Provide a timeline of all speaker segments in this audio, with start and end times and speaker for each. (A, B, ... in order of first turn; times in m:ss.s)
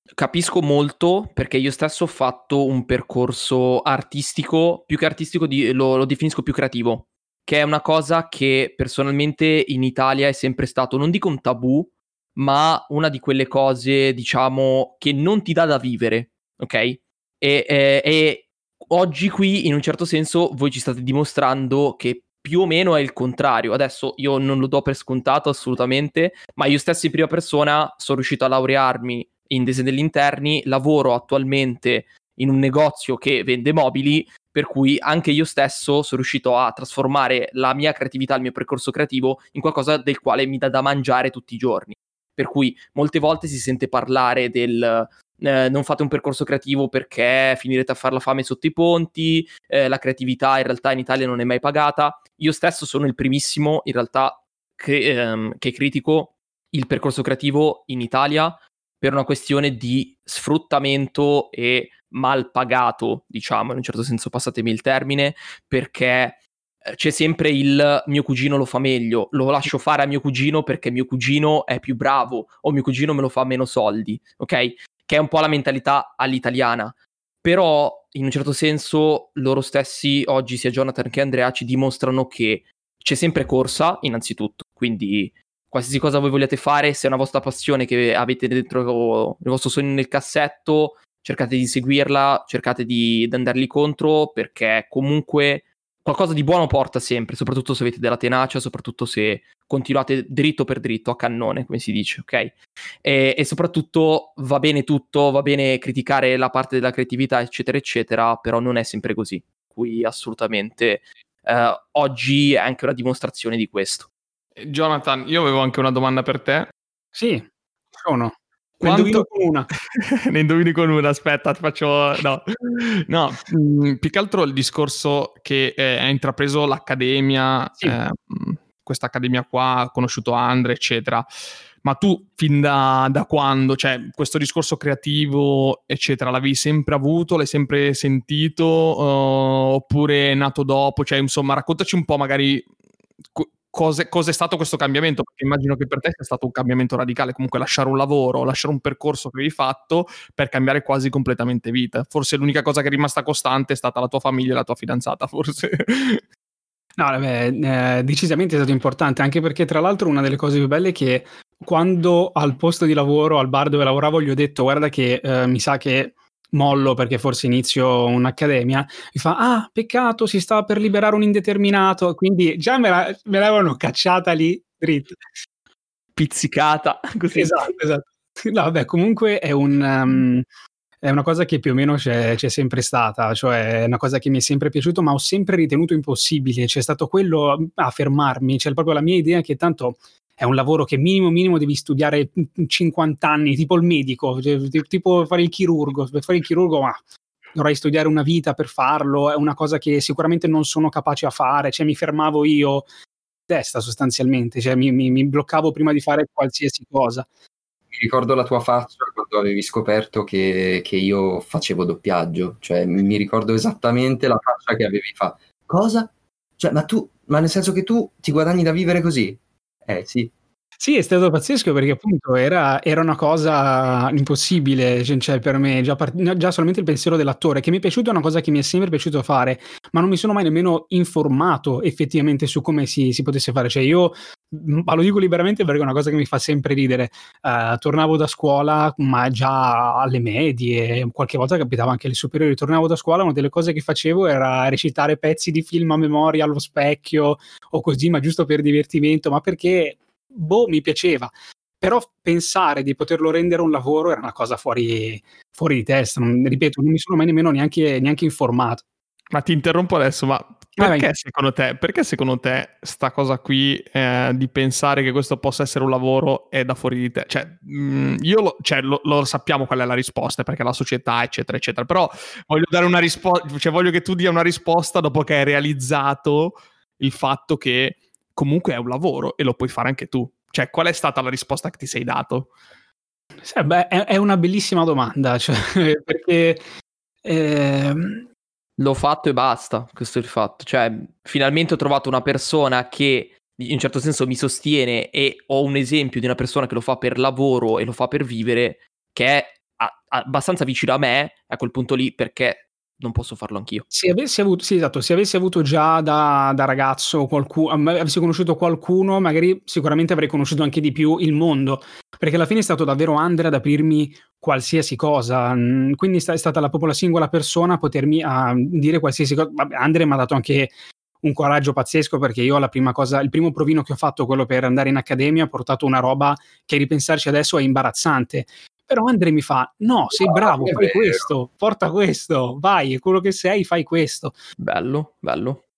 0:00.2-1:54.1 A
1:54.6-1:56.7 B
1:57.1-1:59.7 C
1:58.8-1:59.3 B
1:59.9-2:11.2 B
2:11.8-2:22.7 B
2:23.3-2:36.2 B
2:37.0-2:55.2 C
2:56.2-2:57.7 A
2:57.3-3:00.4 C
3:01.0-3:17.0 C
3:17.5-3:22.9 C
3:23.5-3:27.2 C
3:27.9-3:40.3 D
3:40.8-4:18.8 C
4:19.3-4:42.5 B
4:20.8-4:21.1 C
4:43.4-4:46.6 C
4:47.2-4:48.2 C
4:48.8-5:03.8 A
5:03.9-5:34.4 C
5:30.1-5:31.3 D
5:34.6-5:35.6 A